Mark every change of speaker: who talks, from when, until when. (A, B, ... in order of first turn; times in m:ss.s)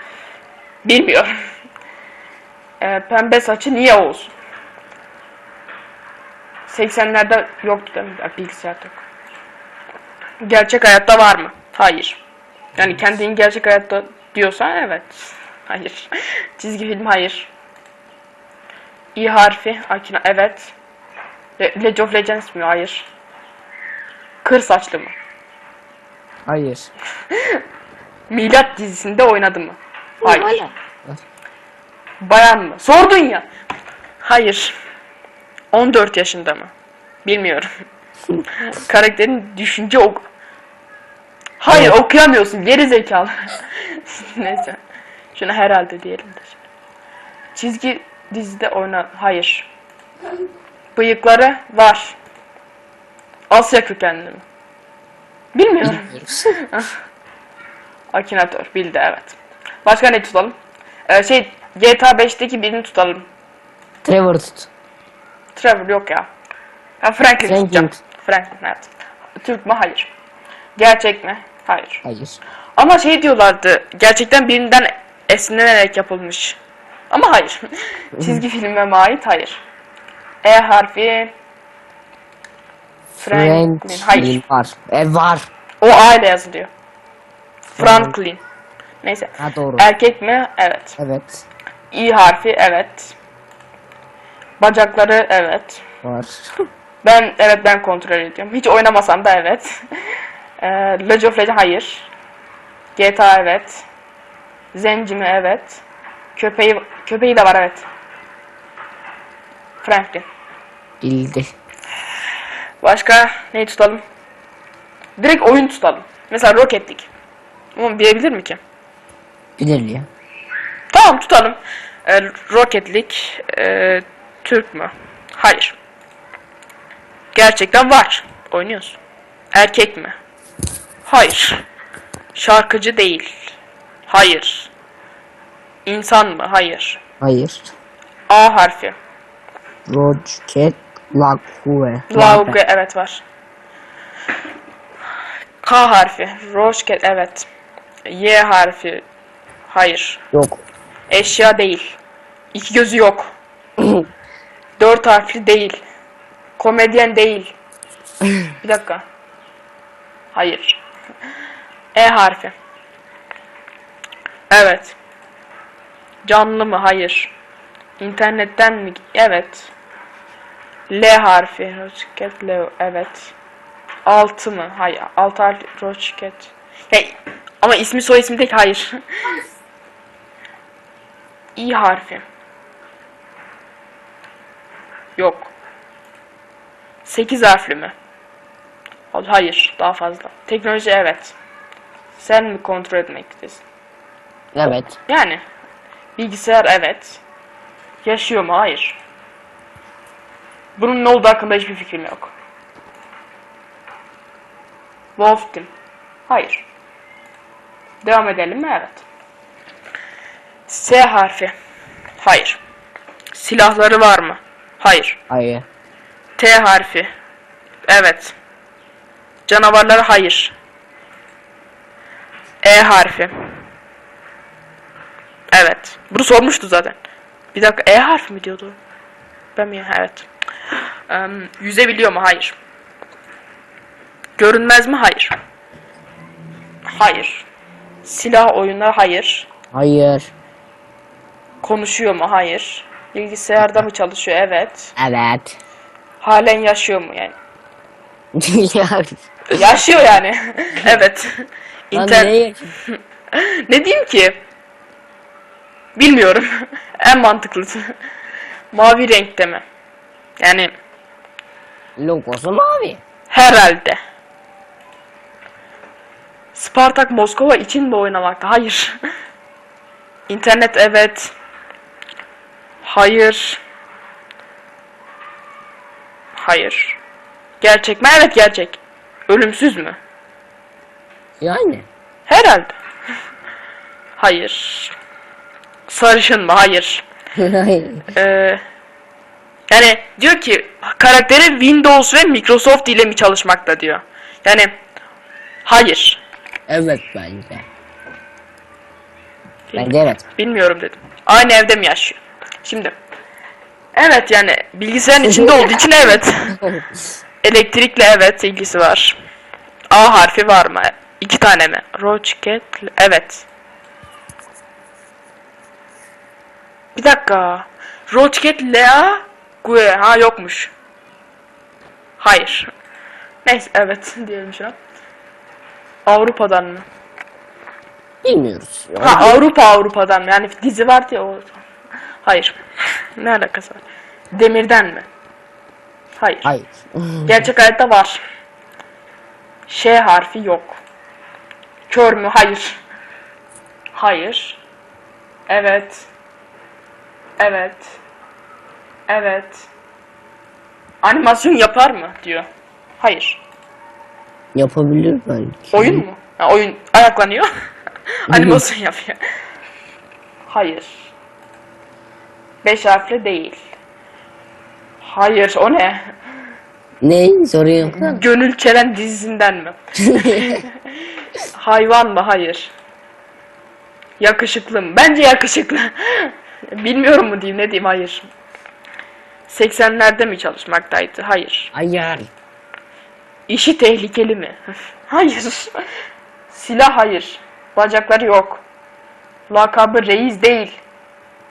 0:00.8-0:01.3 A
0:02.8-0:04.3 A
0:06.7-0:09.0 A
0:10.4-0:12.2 A
0:12.8-0:13.0 B
0:12.8-0:17.5 A
0:19.2-0:20.7 A
0:21.6-0:23.1 A
0:24.4-0:25.2 A
0:26.5-0:26.9 B
0:27.3-0:27.6 A
0:28.3-0:30.6 A
0:30.2-0:31.2 B
0:32.2-0:33.5 A
0:34.2-0:34.8 A
0:35.7-0:36.7 A
0:37.2-0:37.7 A
0:38.6-0:40.3 A
0:41.6-0:43.3 A
0:41.7-0:42.0 B
0:43.8-0:44.8 A
0:45.3-0:46.6 A
0:47.6-0:49.7 A
0:51.0-0:52.2 A
0:53.5-0:54.4 A
0:55.5-0:56.9 A
0:55.8-0:56.6 B
0:58.1-1:00.6 A
1:01.1-1:03.3 A
1:04.0-1:04.7 B
1:05.6-1:06.3 A
1:07.0-1:10.1 A
1:07.4-1:08.0 B
1:10.8-1:12.0 A
1:12.0-1:12.4 B
1:12.8-1:16.6 A
1:17.1-1:19.6 A
1:18.2-1:18.4 B
1:20.4-1:21.3 A
1:23.2-1:25.5 B
1:23.2-1:24.4 A
1:25.8-1:26.7 A
1:27.8-1:28.4 A
1:27.8-1:28.1 B
1:29.0-1:31.0 A
1:29.4-1:29.9 B
1:31.0-1:31.5 B
1:31.9-1:33.2 A
1:34.6-1:35.8 A
1:36.0-1:36.6 B
1:37.0-1:39.8 A
1:40.6-1:42.1 A
1:43.0-1:43.8 A
1:44.7-1:45.8 A
1:46.4-1:47.8 A
1:49.8-1:50.2 A
1:51.0-1:51.5 B
1:52.8-1:54.0 A
1:55.2-1:57.1 A
1:57.8-1:58.6 A
1:59.6-2:00.1 B
2:00.9-2:05.8 A
2:07.3-2:09.0 A
2:09.5-2:10.2 A
2:11.0-2:11.6 A
2:12.3-2:13.6 A
2:14.1-2:14.7 A
2:15.8-2:17.0 A
2:17.2-2:17.7 B
2:18.3-2:19.0 A
2:19.9-2:22.6 B
2:22.1-2:23.2 A
2:25.6-2:27.5 A
2:28.1-2:29.0 A
2:29.7-2:30.2 A
2:30.3-2:30.6 B
2:31.1-2:32.0 A
2:32.5-2:33.3 A
2:34.8-2:35.8 A
2:36.6-2:37.5 A
2:38.6-2:39.0 A
2:40.3-2:40.8 A
2:41.9-2:42.6 A
2:44.5-2:45.0 A
2:46.2-2:47.3 A
2:48.0-2:49.7 A
2:50.9-2:53.3 A
2:54.1-2:59.4 A
3:01.6-3:02.2 A
3:05.2-3:05.5 A
3:07.0-3:08.0 A
3:09.1-3:11.4 A
3:12.2-3:13.6 A
3:14.5-3:15.0 B
3:15.1-3:15.4 A
3:16.2-3:17.2 A
3:18.0-3:19.0 A
3:20.8-3:22.3 A
3:25.2-3:25.7 A
3:26.3-3:26.7 A
3:28.0-3:29.0 A
3:30.7-3:31.5 A
3:32.2-3:32.6 A
3:33.3-3:35.2 A
3:35.3-3:35.6 B
3:36.4-3:37.1 A
3:37.9-3:38.4 A
3:39.5-3:40.6 A
3:42.6-3:43.3 A
3:45.5-3:47.0 A
3:47.5-3:48.8 A
3:49.6-3:50.3 A
3:51.1-3:52.6 A
3:54.4-3:55.4 A
3:56.9-3:57.5 A
3:58.0-3:59.5 A
3:59.7-4:00.3 B
4:01.6-4:04.9 A
4:03.6-4:03.8 B
4:05.0-4:05.6 B
4:06.2-4:07.4 A
4:08.4-4:09.7 B
4:09.6-4:12.4 A
4:11.9-4:12.8 B
4:12.9-4:14.4 A
4:16.0-4:16.5 A
4:17.0-4:17.9 A
4:18.7-4:19.6 A
4:20.4-4:20.7 A
4:22.0-4:23.0 B
4:23.3-4:24.0 A
4:26.5-4:29.0 A
4:30.3-4:31.3 A
4:32.8-4:33.6 A
4:36.4-4:37.0 A
4:37.6-4:40.0 A
4:41.4-4:41.9 B
4:42.3-4:42.8 A
4:44.2-4:45.0 A
4:45.9-4:47.1 A
4:47.4-4:48.1 B
4:48.1-4:48.6 A
4:49.7-4:54.8 A
4:55.6-4:56.2 A
4:56.7-4:57.6 B
4:59.7-5:03.0 A
4:59.8-5:00.2 B
5:03.9-5:06.6 A
5:05.2-5:06.9 B
5:07.4-5:09.2 A
5:09.9-5:13.5 A
5:17.0-5:20.7 A
5:22.2-5:22.7 A
5:23.4-5:24.8 A
5:26.0-5:26.9 A
5:28.2-5:29.4 B
5:29.0-5:31.6 A
5:32.2-5:32.6 A
5:33.2-5:35.1 A
5:36.2-5:36.5 A
5:36.4-5:37.5 B
5:37.3-5:38.2 A
5:39.7-5:40.8 A
5:41.9-5:42.8 A
5:43.9-5:44.6 A
5:45.5-5:46.1 A
5:47.4-5:48.0 A
5:49.1-5:49.7 A
5:51.0-5:52.5 A
5:53.0-5:53.4 A
5:54.6-5:56.0 B
5:55.7-5:57.5 A
5:58.3-5:59.2 A
5:58.3-5:58.6 B
6:00.5-6:01.1 A
6:02.6-6:03.6 A
6:05.0-6:06.1 A
6:07.0-6:08.2 B
6:07.9-6:10.7 A
6:10.0-6:10.6 B
6:11.5-6:12.7 A
6:14.2-6:18.3 A
6:19.5-6:21.7 A
6:21.7-6:22.3 B
6:23.5-6:25.8 A
6:26.5-6:28.6 A
6:29.5-6:30.8 A